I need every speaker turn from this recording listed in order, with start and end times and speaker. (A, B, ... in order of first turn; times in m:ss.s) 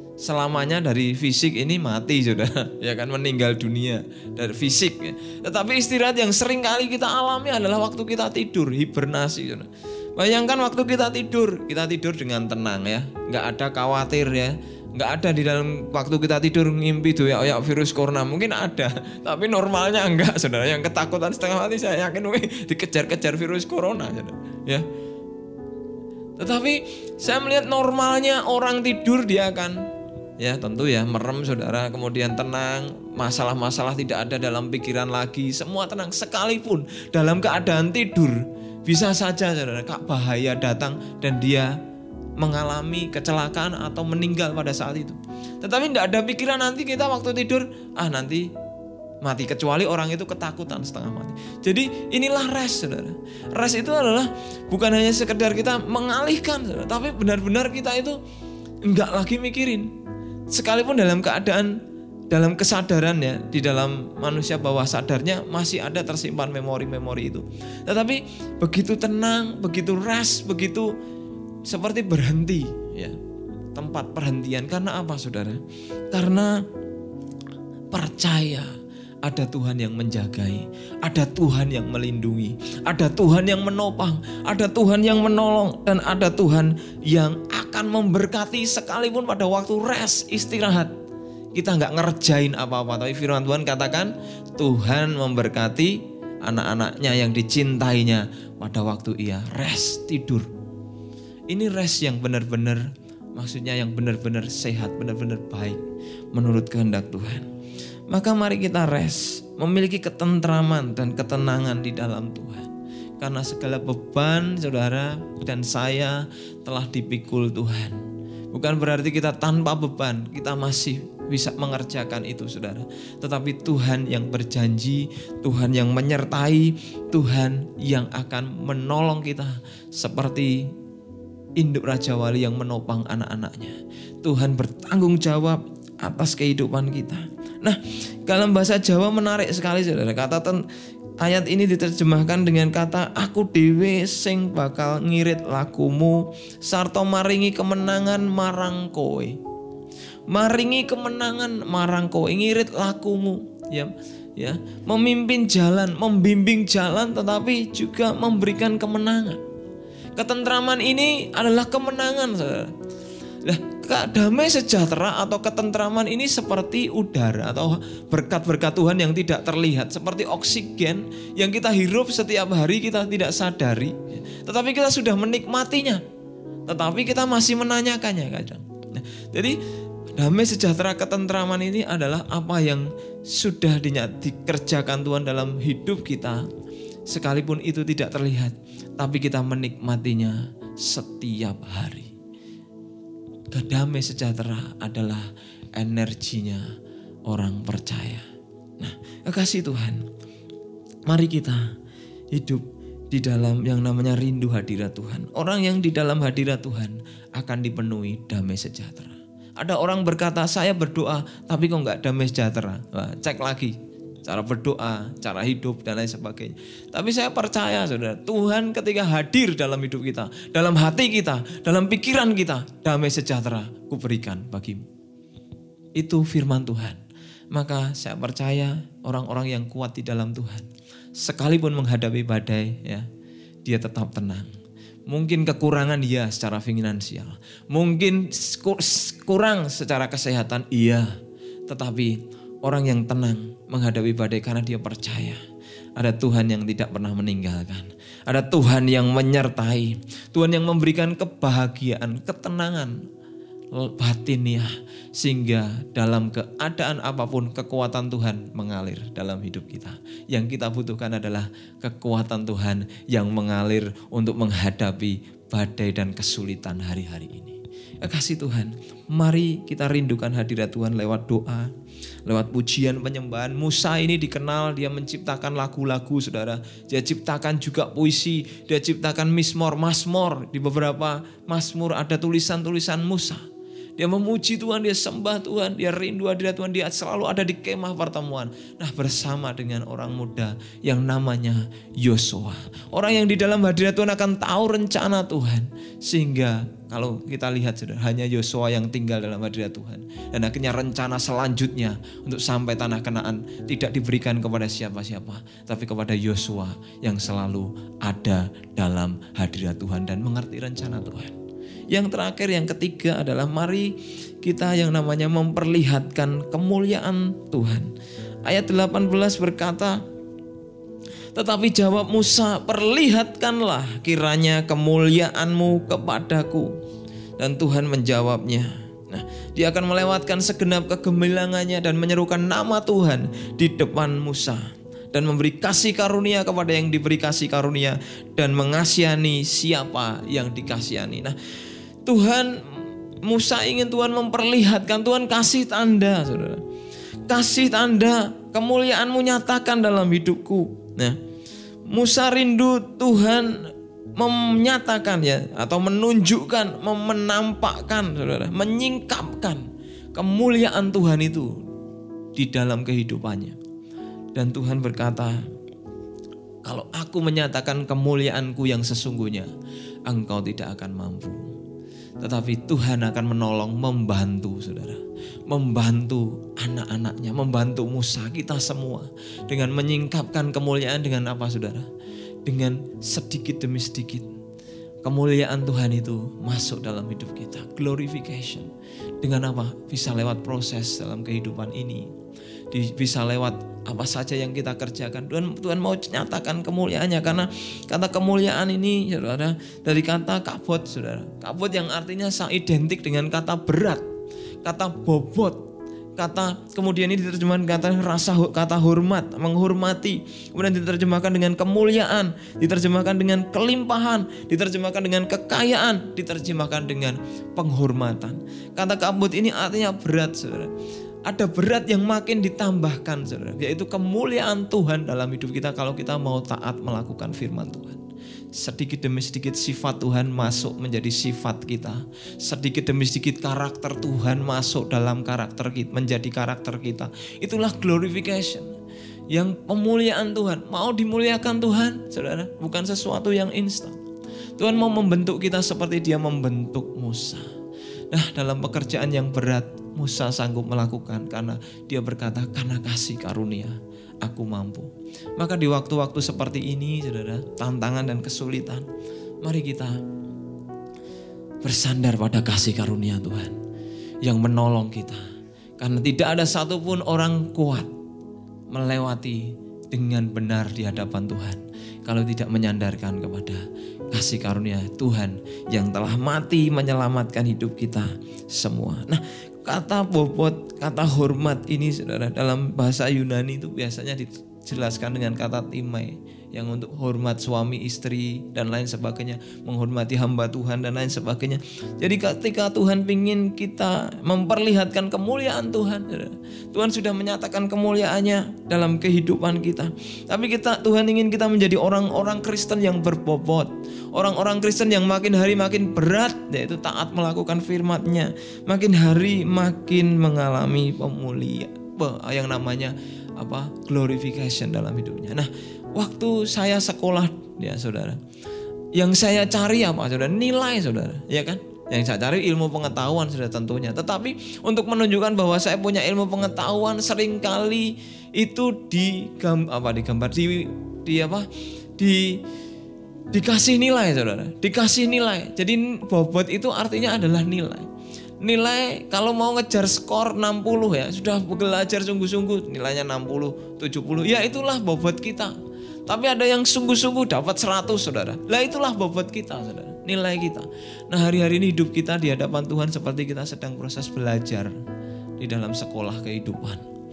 0:00.2-0:24.8 A
0:26.4-0:29.9 A
0:30.4-0:41.8 A
0:42.4-0:48.5 A
0:49.2-0:58.2 A
0:58.8-0:59.9 A
1:00.5-1:01.8 A
1:02.3-1:10.9 A
1:11.7-1:13.2 A
1:13.8-1:15.6 A
1:16.1-1:16.6 A
1:17.9-1:18.7 A
1:19.2-1:30.9 A
1:31.6-1:40.5 A
1:41.5-1:47.5 A
1:48.1-1:58.0 A
1:58.5-2:10.7 A
2:11.6-2:20.6 A
2:21.2-2:29.4 A
2:30.3-2:39.4 A
2:40.2-2:42.7 A
2:43.4-2:56.0 A
2:56.7-2:59.6 A
3:00.2-3:06.4 A
3:07.1-3:12.1 A
3:13.5-3:16.6 A
3:17.3-3:18.2 A
3:18.8-3:20.0 A
3:21.1-3:21.7 A
3:22.3-3:44.9 A
3:46.0-3:47.0 A
3:47.5-3:53.1 A
3:53.6-3:54.5 A
3:55.1-4:01.2 A
4:01.7-4:05.4 A
4:06.0-4:13.0 A
4:13.7-4:31.7 A
4:32.3-4:43.4 A
4:44.0-5:11.4 A
5:11.9-5:17.9 A
5:18.5-5:20.0 A
5:21.4-5:26.7 A
5:27.4-5:41.4 A
5:42.1-5:42.6 A
5:43.2-5:46.6 A
5:47.3-5:51.2 A
5:51.9-6:01.6 A
6:02.4-6:03.6 A
6:04.3-6:05.4 A
6:06.6-6:09.5 A
6:10.1-6:11.5 A
6:12.2-6:21.9 A
6:22.4-6:24.3 A
6:25.0-6:28.7 A
6:29.2-6:32.1 A
6:32.7-6:44.0 A
6:44.6-6:45.6 A
6:46.2-7:00.7 A
7:01.3-7:08.0 A
7:08.6-7:18.7 A
7:19.3-7:24.0 A
7:24.6-7:27.5 A
7:28.1-7:38.9 A
7:39.4-7:40.0 A
7:41.6-7:43.6 A
7:44.2-7:45.2 A
7:45.8-7:47.9 A
7:48.7-8:38.2 A
8:39.0-8:51.5 A
8:52.0-8:52.4 A
8:53.3-8:57.9 A
8:58.4-9:05.6 A
9:06.1-9:14.8 A
9:15.4-9:16.8 A